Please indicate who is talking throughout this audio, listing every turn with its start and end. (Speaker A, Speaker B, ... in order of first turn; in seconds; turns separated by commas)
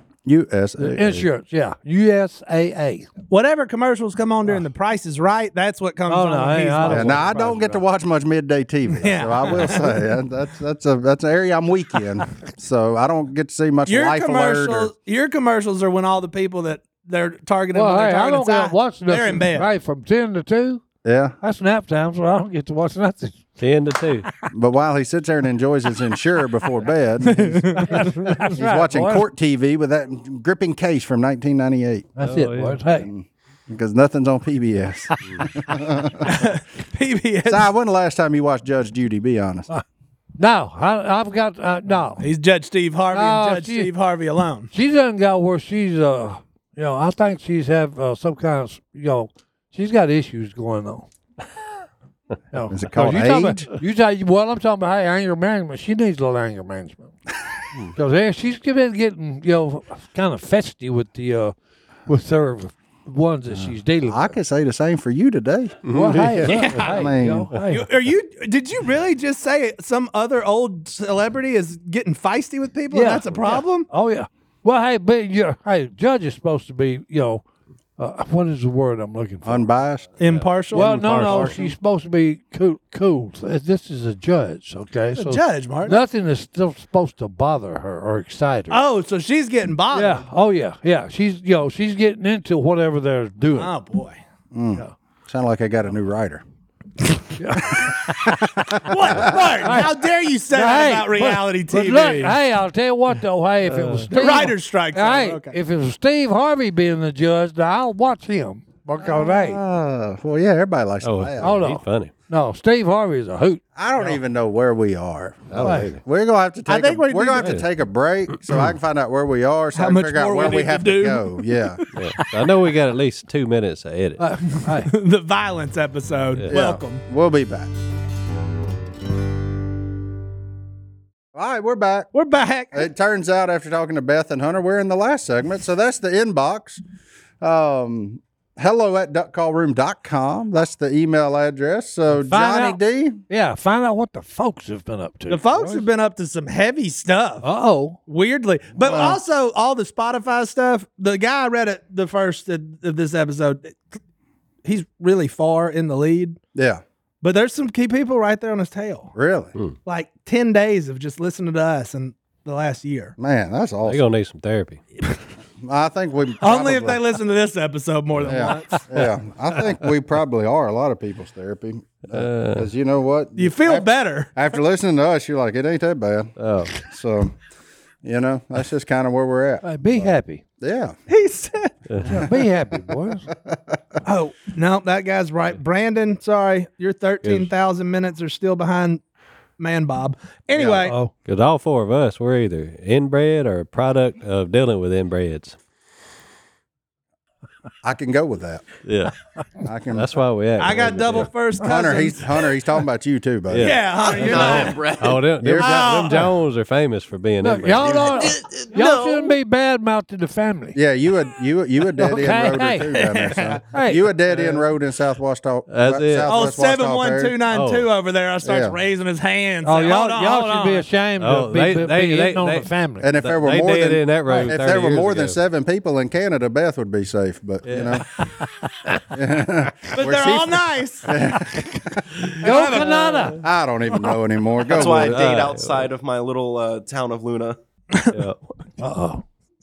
Speaker A: 0.2-1.2, Speaker B: 0.8-3.1, Speaker C: 3.3-7.6, Speaker B: 6.1-7.8, Speaker A: 6.9-14.9, Speaker C: 9.0-10.0, Speaker C: 13.8-19.7, Speaker B: 17.7-20.8, Speaker A: 21.0-21.3, Speaker B: 21.4-23.5, Speaker D: 23.6-24.2, Speaker A: 24.5-32.1, Speaker C: 27.2-28.1, Speaker B: 27.9-29.3, Speaker B: 32.2-33.1, Speaker D: 32.2-32.8, Speaker A: 33.0-36.3, Speaker C: 36.2-37.7, Speaker A: 37.5-39.7, Speaker B: 40.4-42.2, Speaker C: 42.2-44.7, Speaker B: 43.1-43.9, Speaker B: 44.7-51.1, Speaker B: 52.5-57.1, Speaker A: 52.7-53.7, Speaker B: 58.0-61.5, Speaker B: 62.1-64.3, Speaker A: 64.0-67.5, Speaker D: 65.8-66.7, Speaker B: 65.9-67.8, Speaker C: 66.5-67.1, Speaker C: 67.7-73.9, Speaker B: 72.9-77.4, Speaker B: 78.0-79.7, Speaker A: 79.4-80.2, Speaker C: 80.2-81.5, Speaker D: 80.2-81.6, Speaker B: 80.7-88.8, Speaker A: 80.9-81.7, Speaker C: 85.2-86.0, Speaker C: 88.7-90.2, Speaker B: 89.9-93.7, Speaker C: 93.5-94.2, Speaker A: 94.5-96.4, Speaker B: 97.3-98.4, Speaker A: 97.6-99.5, Speaker C: 98.8-102.4, Speaker B: 99.6-99.9, Speaker B: 100.5-109.6, Speaker D: 103.7-104.1, Speaker C: 104.1-105.6, Speaker A: 109.1-111.6, Speaker D: 111.0-112.1, Speaker B: 111.4-113.6, Speaker A: 113.8-121.8, Speaker D: 115.5-116.0, Speaker B: 115.6-115.9, Speaker C: 116.7-117.5, Speaker D: 117.4-117.6, Speaker D: 118.3-118.7, Speaker C: 119.7-122.2, Speaker D: 121.9-124.2, Speaker B: 124.2-124.9, Speaker C: 124.7-127.0, Speaker A: 126.5-127.7, Speaker A: 131.3-132.1, Speaker C: 132.1-132.9, Speaker A: 132.7-136.8, Speaker A: 137.4-143.2, Speaker B: 142.1-145.8, Speaker C: 145.3-147.4, Speaker B: 147.4-148.0, Speaker C: 148.1-153.8, Speaker A: 148.8-149.2, Speaker C: 154.6-156.4, Speaker A: 156.5-156.8, Speaker C: 157.2-159.1, Speaker A: 159.1-159.5, Speaker C: 159.8-163.1, Speaker A: 163.2-164.0, Speaker D: 163.8-164.8, Speaker A: 165.6-167.0, Speaker C: 166.4-169.0, Speaker A: 168.2-177.3, Speaker D: 172.1-172.7, Speaker C: 173.3-174.3, Speaker D: 176.4-176.7, Speaker A: 178.0-180.9, Speaker B: 179.6-180.4, Speaker C: 181.1-181.7, Speaker A: 182.0-182.4, Speaker B: 182.0-183.3, Speaker A: 183.3-183.8, Speaker C: 184.0-189.0, Speaker D: 187.2-187.5, Speaker C: 189.6-190.9, Speaker A: 190.5-190.9, Speaker B: 190.8-191.1, Speaker D: 191.2-195.6, Speaker A: 197.8-198.7, Speaker D: 198.8-199.1, Speaker A: 199.6-200.1, Speaker D: 199.9-201.3, Speaker C: 200.6-202.5, Speaker A: 201.6-203.8, Speaker D: 203.5-208.0, Speaker C: 203.6-204.8, Speaker E: 204.0-205.3, Speaker A: 205.4-206.0, Speaker C: 205.5-206.3, Speaker B: 207.4-210.8, Speaker A: 207.8-208.2, Speaker E: 208.1-209.3, Speaker A: 210.7-217.4, Speaker B: 212.0-212.9, Speaker C: 212.9-213.6, Speaker B: 213.7-214.0, Speaker D: 214.3-214.7, Speaker D: 215.7-216.3, Speaker C: 216.2-220.8, Speaker D: 217.5-217.9, Speaker A: 218.4-218.8, Speaker B: 219.6-223.1, Speaker D: 221.2-222.7, Speaker A: 223.0-228.1, Speaker D: 223.2-225.4, Speaker D: 227.6-228.2, Speaker A: 229.1-232.1, Speaker C: 229.9-231.2, Speaker C: 232.4-233.4, Speaker B: 232.4-233.4, Speaker A: 233.4-235.3, Speaker E: 234.7-237.6, Speaker D: 234.8-235.9, Speaker C: 237.9-238.2, Speaker D: 238.1-238.4, Speaker B: 238.8-239.2